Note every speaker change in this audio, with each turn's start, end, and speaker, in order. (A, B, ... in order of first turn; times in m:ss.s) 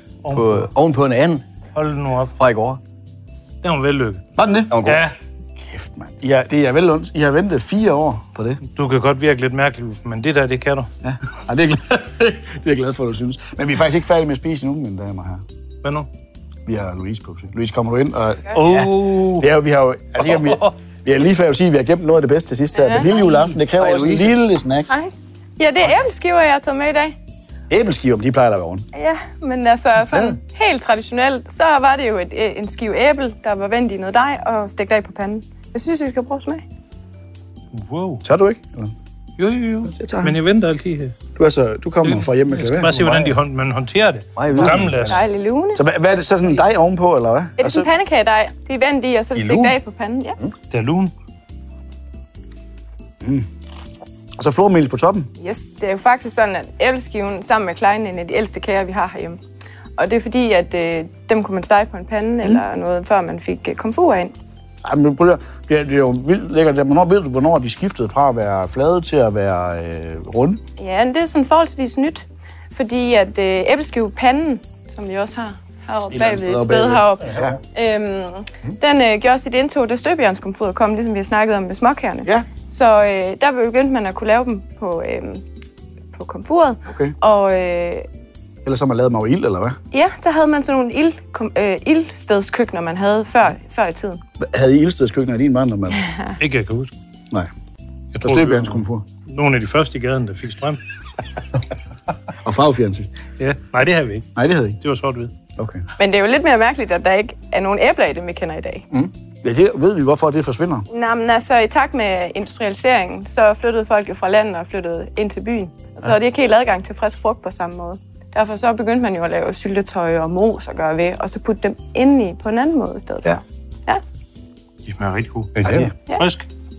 0:00.2-0:00.7 A
0:00.3-0:01.4 B
0:01.8-0:02.4 A
0:02.4-0:02.8 B
0:03.6-0:04.2 A
0:04.4-0:04.9 C
0:04.7-0:05.0 B
0:04.8-0:05.2 A
0:05.6-0:08.6 C
0:08.8-0:10.9 A
0:11.0-0:15.4 C
0:15.8-0:16.1 A
0:16.7-0:24.9 C
0:18.5-0:19.5 A
0:20.2-0:20.7 A
0:22.8-0:23.3 D
0:23.8-0:24.4 B
0:24.9-0:27.2 D
0:27.7-0:28.8 C
0:28.9-0:36.6 D
0:37.7-0:38.2 A
0:38.2-0:38.9 C
0:39.4-0:41.2 A
0:39.9-0:40.4 C
0:41.4-0:43.4 C
0:42.0-0:45.2 A
0:44.4-0:45.2 B
0:45.1-0:45.8 D
0:45.8-0:47.9 C
0:47.6-0:50.4 D
0:49.4-0:49.8 B
0:50.7-0:51.1 A
0:54.4-0:55.3 C
0:55.4-0:59.4 D
1:00.0-1:04.3 D
1:04.8-1:10.6 C
1:10.8-1:25.4 D
1:16.1-1:17.6 C
1:26.1-1:28.1 D
1:26.9-1:27.2 C
1:28.6-1:29.8 C
1:29.9-1:34.2 D
1:34.4-1:36.1 C
1:36.4-1:36.9 A
1:38.1-1:40.8 A
1:38.2-1:39.0 C
1:42.4-1:43.1 C
1:43.4-1:45.3 A
1:44.4-1:44.8 C
1:45.6-1:45.8 C
1:46.0-1:48.8 D
1:49.4-1:50.9 C
1:50.9-2:04.0 D
2:04.8-2:06.5 A
2:05.6-2:05.9 B
2:05.6-2:05.9 C